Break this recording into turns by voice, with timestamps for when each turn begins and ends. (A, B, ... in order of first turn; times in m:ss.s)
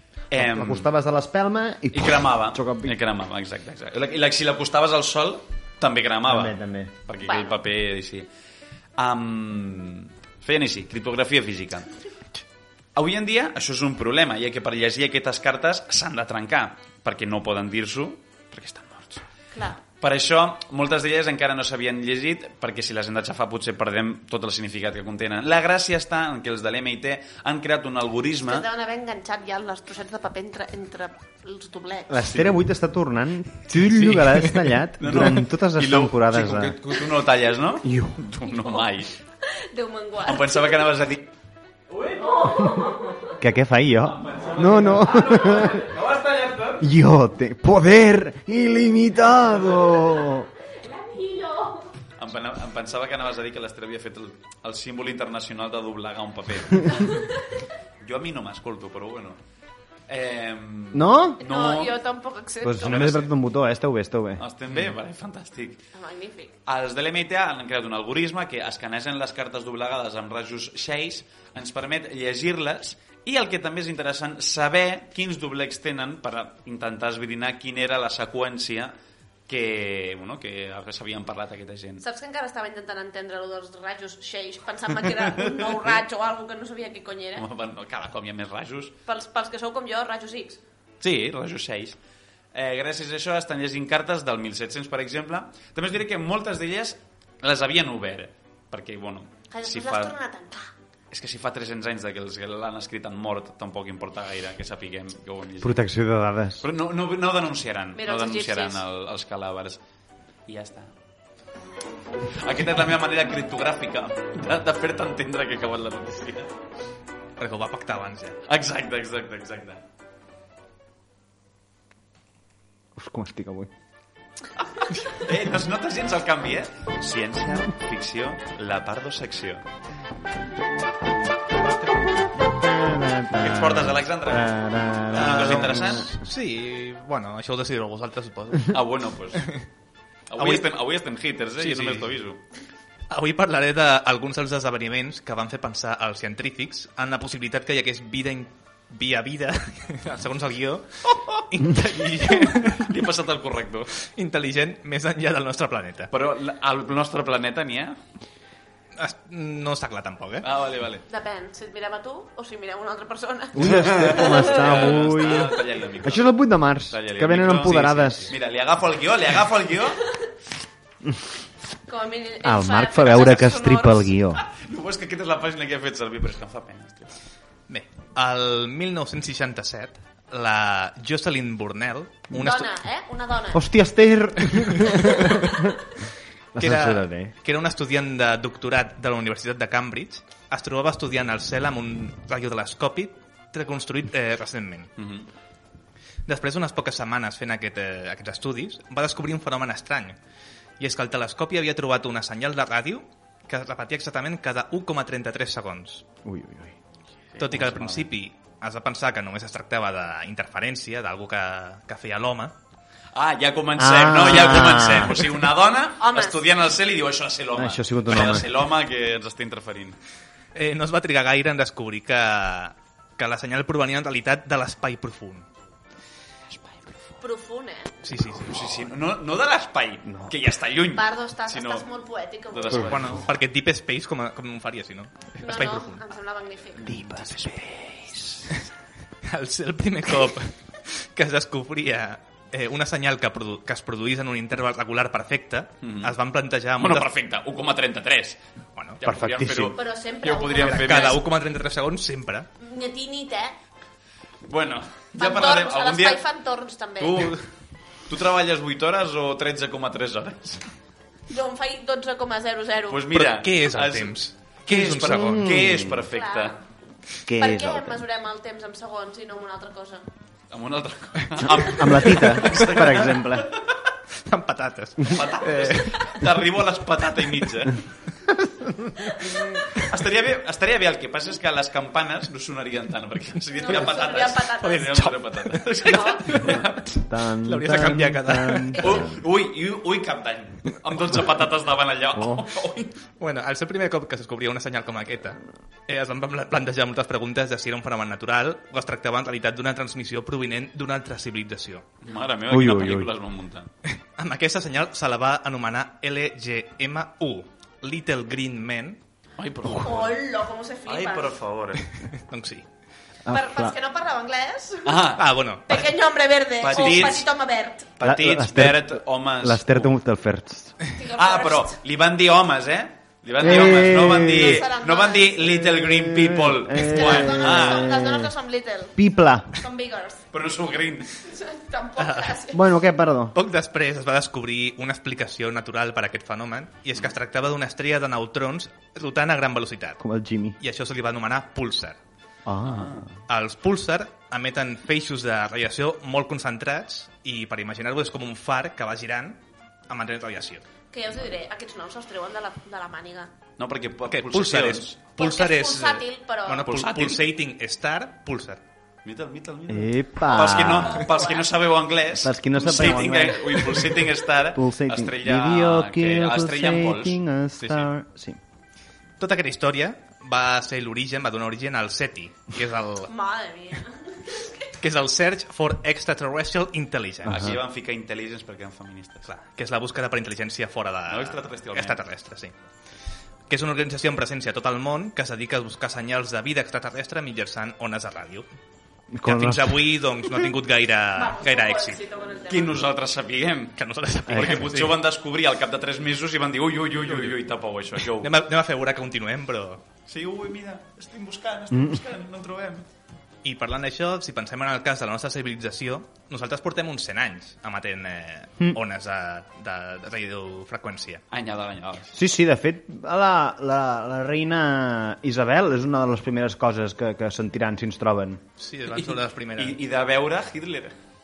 0:00.3-0:00.9 A
0:00.3-0:02.9 B
0:01.9-0:08.3 A
0:06.3-0:06.9 B
0:07.2-0:07.6 C
0:09.0-0:11.9 A
0:12.9-0:19.2 A
0:19.5-0:19.8 C
0:19.8-0:28.6 A
0:28.4-0:32.1 C
0:32.1-0:36.9 B
0:32.2-0:32.6 A
0:35.0-0:39.1 A
0:37.8-0:38.2 B
0:38.5-0:38.8 C
0:39.4-0:40.9 C
0:40.2-0:41.3 A
0:41.9-0:42.8 A
0:42.4-0:43.3 C
0:43.4-0:45.9 B
0:44.1-0:46.8 A
0:46.8-0:50.5 B
0:50.7-0:51.9 C
0:52.2-0:57.1 A
0:57.0-0:57.4 C
0:58.0-0:59.4 A
1:00.1-1:02.0 A
1:00.9-1:01.4 B
1:01.4-1:03.1 C
1:02.6-1:04.4 B
1:02.8-1:03.3 A
1:04.4-1:05.8 A
1:05.9-1:06.5 C
1:06.6-1:18.9 A
1:19.5-1:22.0 A
1:22.0-1:27.4 C
1:25.4-1:26.0 A
1:27.4-1:29.0 A
1:29.0-1:30.6 C
1:31.0-1:32.0 A
1:32.5-1:40.1 A
1:39.5-1:40.7 C
1:41.1-1:45.8 A
1:45.6-1:46.6 B
1:46.6-1:49.8 A
1:47.9-1:48.8 C
1:50.5-1:50.9 A
1:52.3-1:56.5 A
1:57.4-1:58.4 D
1:58.4-1:59.8 A
2:03.0-2:03.7 B
2:05.0-2:09.6 A
2:11.6-2:11.9 D
2:12.4-2:16.2 B
2:13.4-2:16.1 A
2:15.1-2:18.8 D
2:18.7-2:19.5 A
2:20.3-2:22.4 A
2:20.4-2:20.7 D
2:21.6-2:22.1 D
2:23.1-2:33.0 D
2:31.1-2:31.4 A
2:32.5-2:34.0 A
2:34.0-2:36.1 D
2:36.1-2:38.0 A
2:39.0-2:40.4 D
2:40.4-2:41.0 A
2:41.1-2:44.6 C
2:43.5-2:48.3 B
2:43.6-2:50.0 A
2:47.7-2:48.3 D
2:51.9-2:54.2 C
2:52.4-2:54.4 B
2:54.4-2:57.1 A
2:57.7-3:02.7 D
3:02.3-3:03.6 C
3:03.5-3:05.8 B
3:06.5-3:07.3 B
3:06.6-3:14.9 D
3:15.0-3:15.3 A
3:16.2-3:20.2 D
3:20.8-3:26.1 D
3:26.2-3:26.8 B
3:27.3-3:28.1 A
3:27.4-3:32.5 D
3:33.1-3:40.0 A
3:33.8-3:35.4 B
3:36.0-3:36.4 C
3:37.5-3:38.5 B
3:40.5-3:45.5 D
3:47.2-3:48.0 C
3:48.0-3:48.8 D
3:48.4-3:51.9 A
3:50.1-3:50.3 B
3:50.9-3:53.0 C
3:52.5-3:53.2 A
3:52.8-3:56.0 D
3:55.4-3:56.8 C
3:56.8-3:57.8 A
3:56.8-3:58.4 B
3:59.2-4:07.1 D
4:05.8-4:06.2 A
4:06.8-4:08.4 A
4:08.8-4:09.0 D
4:09.0-4:11.2 A
4:09.0-4:09.8 B
4:09.7-4:11.2 C
4:10.6-4:12.5 D
4:12.6-4:13.5 C
4:14.4-4:16.2 A
4:15.2-4:17.3 C
4:17.0-4:17.5 A
4:18.1-4:20.7 A
4:21.3-4:23.1 C
4:22.9-4:26.6 A
4:23.1-4:25.4 D
4:25.1-4:26.0 B
4:26.1-4:26.6 C
4:27.2-4:28.0 B
4:27.4-4:30.0 C
4:30.5-4:33.7 A
4:31.4-4:33.5 B
4:34.2-4:36.3 D
4:35.1-4:37.8 A
4:39.7-4:46.9 A
4:43.5-4:45.2 C
4:44.6-4:49.1 D
4:45.8-4:46.6 C
4:47.0-4:49.2 B
4:48.8-4:53.0 A
4:52.2-4:52.4 B
4:53.2-5:01.9 D
5:02.0-5:03.7 A
5:02.5-5:03.1 B
5:04.1-5:09.0 D
5:09.4-5:10.1 A
5:09.7-5:11.4 C
5:10.8-5:11.8 A
5:12.1-5:12.6 D
5:13.2-5:13.7 B
5:13.3-5:15.1 C
5:14.8-5:15.2 A
5:15.2-5:15.9 D
5:15.7-5:17.9 C
5:16.6-5:17.3 A
5:18.0-5:19.9 A
5:18.0-5:20.8 B
5:20.9-5:21.8 C
5:21.1-5:27.9 A
5:23.4-5:24.6 B
5:23.4-5:25.4 C
5:25.6-5:28.3 B
5:26.7-5:29.0 C
5:29.0-5:29.6 B
5:29.5-5:30.2 C
5:30.3-5:31.2 A
5:31.2-5:32.6 C
5:32.0-5:32.4 D
5:32.5-5:33.3 B
5:33.3-5:40.0 D
5:40.0-5:40.6 B
5:40.6-5:42.0 D
5:42.4-5:43.1 B
5:42.6-5:43.1 A
5:43.3-5:50.6 D
5:50.9-5:53.3 C
5:53.6-5:54.9 A
5:54.1-5:58.6 D
5:55.2-5:56.7 C
5:56.6-5:57.2 A
5:59.0-6:07.8 A
5:59.7-6:01.1 B
6:00.3-6:01.5 C
6:02.1-6:08.4 B
6:09.2-6:13.1 D
6:13.1-6:14.7 C
6:14.8-6:17.6 D
6:17.2-6:19.3 A
6:19.2-6:22.5 D
6:21.1-6:22.0 A
6:23.5-6:28.4 D
6:29.1-6:30.0 B
6:29.2-6:32.0 D
6:31.1-6:32.8 C
6:32.5-6:33.8 A
6:33.8-6:35.0 D
6:34.3-6:34.8 B
6:34.3-6:38.3 A
6:37.1-6:37.4 D
6:38.1-6:39.8 D
6:40.1-6:42.8 A
6:43.4-6:51.2 D
6:51.3-6:52.2 A
6:52.1-6:58.4 B
6:58.6-6:59.8 D
6:58.9-7:00.9 A